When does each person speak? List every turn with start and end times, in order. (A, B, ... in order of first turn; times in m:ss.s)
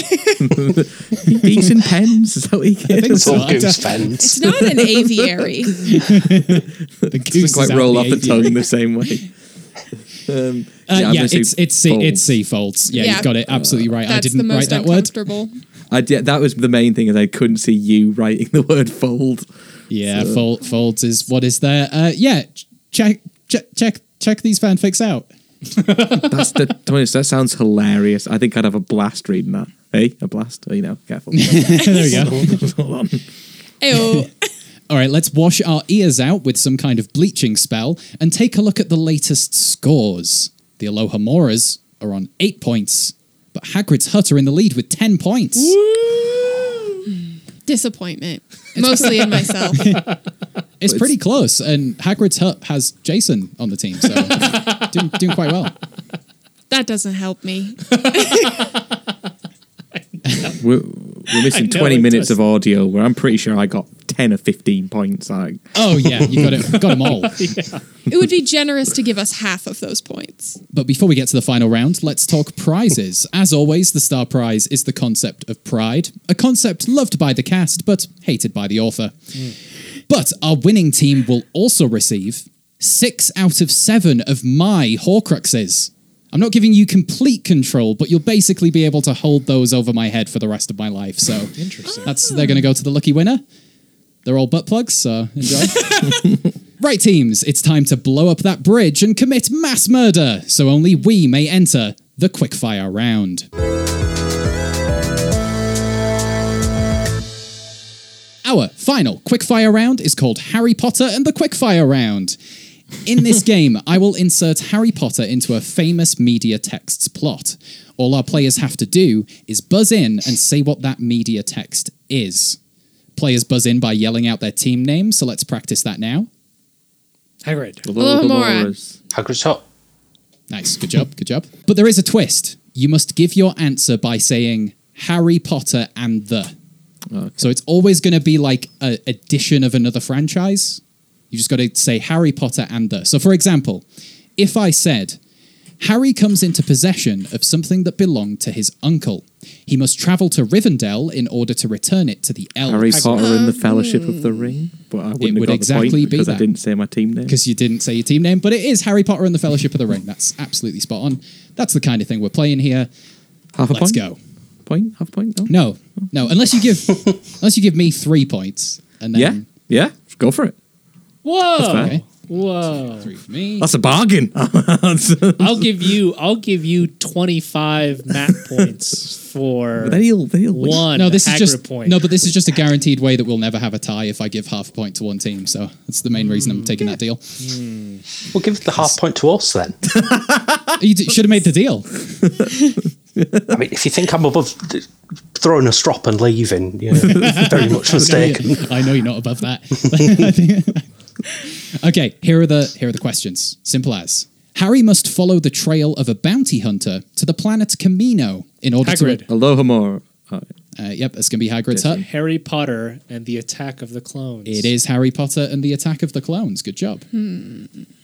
0:00.4-0:03.8 A
0:01.3-0:01.7 B
0:02.8-0:04.4 B
0:03.1-0:04.4 C
0:04.2-0:05.8 D
0:04.4-0:09.3 A
0:05.8-0:08.6 B
0:10.3-0:12.3 A
0:10.9-0:15.1 B
0:12.9-0:14.0 A
0:13.0-0:13.4 D
0:14.0-0:15.5 D
0:15.9-0:19.5 A
0:19.9-0:25.3 B
0:20.1-0:20.4 A
0:25.8-0:26.3 E
0:26.2-0:33.2 A
0:31.3-0:32.6 B
0:33.8-0:34.5 D
0:33.9-0:34.3 B
0:34.9-0:45.7 B
0:45.6-0:47.0 E
0:47.3-0:50.0 D
0:48.8-0:49.1 B
0:49.0-0:50.2 E
0:49.7-0:50.1 B
0:50.8-0:55.7 B
0:54.3-0:54.9 E
0:56.7-0:58.7 D
0:57.9-0:58.8 E
1:00.2-1:00.6 E
1:00.6-1:06.3 A
1:01.3-1:02.4 E
1:05.7-1:07.5 B
1:06.7-1:07.8 E
1:08.1-1:10.6 D
1:10.7-1:19.5 B
1:20.1-1:33.4 B
1:31.6-1:32.2 E
1:34.2-1:43.5 B
1:48.4-1:52.4 B
1:53.0-2:02.6 B
2:03.1-2:06.3 B
2:07.4-2:07.9 E
2:07.8-2:08.9 A
2:08.0-2:08.7 D
2:09.1-2:09.6 C
2:10.5-2:16.5 B
2:17.1-2:17.4 A
2:17.4-2:23.8 B
2:24.4-2:25.2 B
2:25.8-2:33.3 B
2:32.7-2:37.4 A
2:32.9-2:33.3 E
2:33.2-2:34.5 D
2:35.2-2:36.5 B
2:37.2-2:42.9 B
2:43.5-2:44.0 A
2:43.7-2:44.2 B
2:44.6-2:45.5 A
2:45.5-2:49.5 B
2:49.1-2:50.5 A
2:51.2-2:53.1 E
2:51.6-2:51.9 A
2:51.7-2:52.0 B
2:52.9-2:53.7 B
2:53.6-2:55.7 A
2:55.4-3:02.0 E
2:59.8-3:00.9 A
3:00.9-3:07.4 B
3:06.2-3:06.8 E
3:07.4-3:08.0 E
3:08.3-3:09.8 C
3:10.0-3:10.7 A
3:10.8-3:12.0 B
3:13.5-3:18.7 C
3:17.1-3:20.8 B
3:17.2-3:17.5 A
3:21.4-3:29.2 B
3:28.8-3:29.3 E
3:29.3-3:30.5 A
3:30.8-3:32.0 B
3:31.7-3:32.0 A
3:32.0-3:34.7 E
3:34.4-3:37.0 B
3:37.1-3:37.8 D